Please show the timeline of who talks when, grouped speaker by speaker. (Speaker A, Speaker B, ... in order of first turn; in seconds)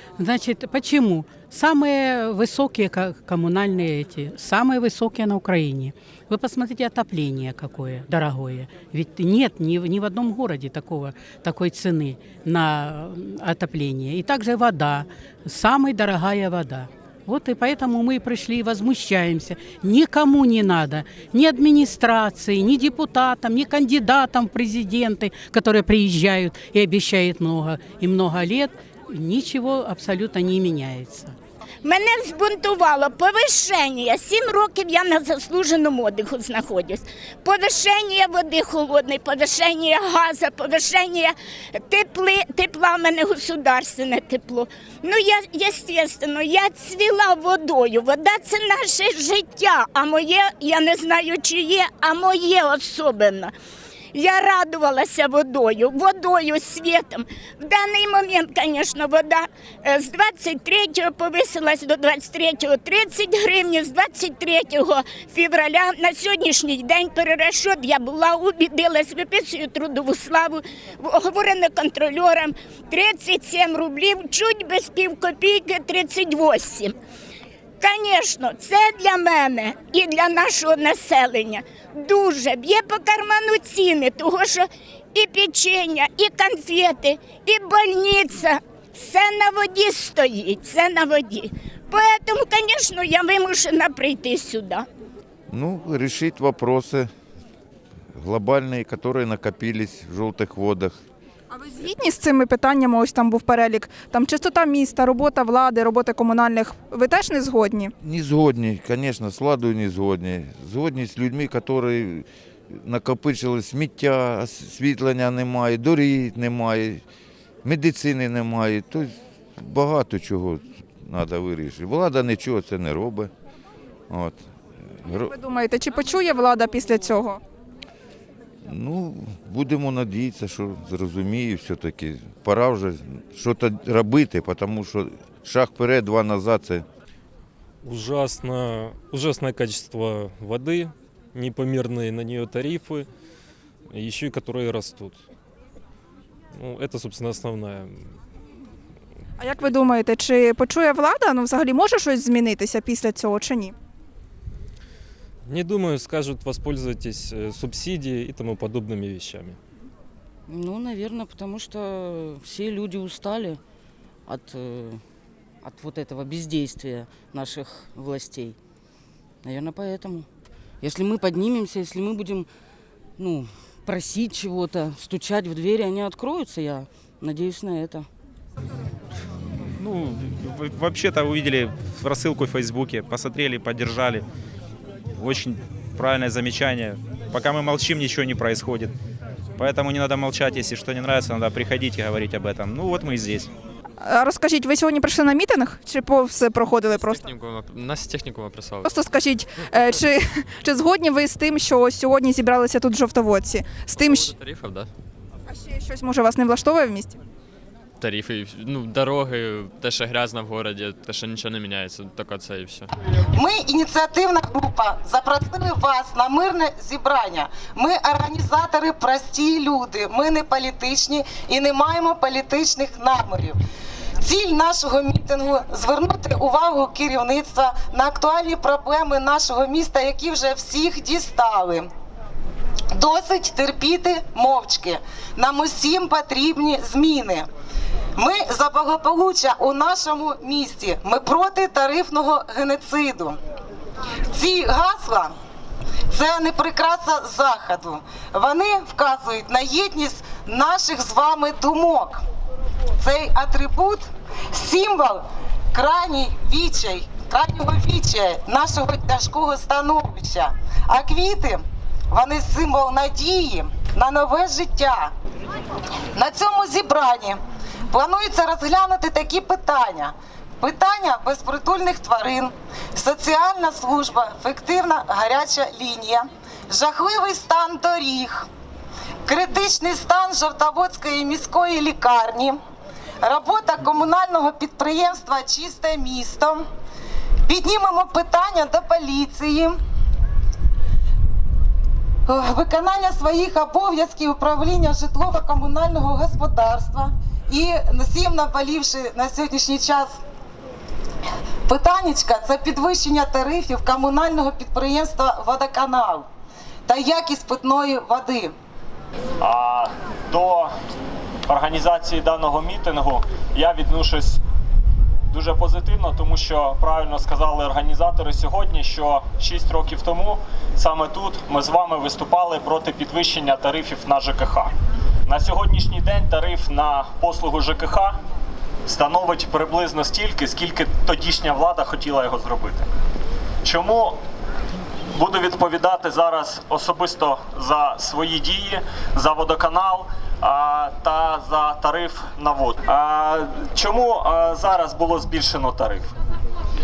Speaker A: 0.2-31.4
Speaker B: 31.8-53.5, 54.1-76.9, 77.8-94.9
Speaker C: 95.5-97.1, 98.1-101.0, 108.0-117.0, 117.6-123.3, 124.1-125.3, 128.7-136.8
Speaker D: 101.5-107.9, 125.2-127.4, 149.4-153.8, 194.0-197.3, 198.8-204.3, 205.5-207.2
Speaker E: 137.8-143.1, 143.9-145.2, 146.5-148.0, 155.4-159.6
Speaker F: 160.5-163.6, 164.2-165.0, 165.6-168.6, 169.4-170.3, 170.8-172.5, 173.2-178.1
Speaker G: 179.7-184.2, 185.2-188.9, 189.6-193.5
Speaker H: 196.9-198.9, 204.0-204.9, 208.0-212.9
Speaker I: 213.3-223.6, 224.2-231.9, 232.9-237.5, 238.2-243.4, 244.3-245.3, 246.1-252.2, 253.0-265.1, 266.1-278.5, 279.2-282.6, 283.2-286.6, 287.4-289.8, 292.3-300.2, 301.7-306.3, 306.9-308.5
Speaker J: 309.4-310.7, 311.5-314.4, 315.3-324.7, 325.2-328.2, 328.9-332.9, 333.6-334.2, 335.1-346.1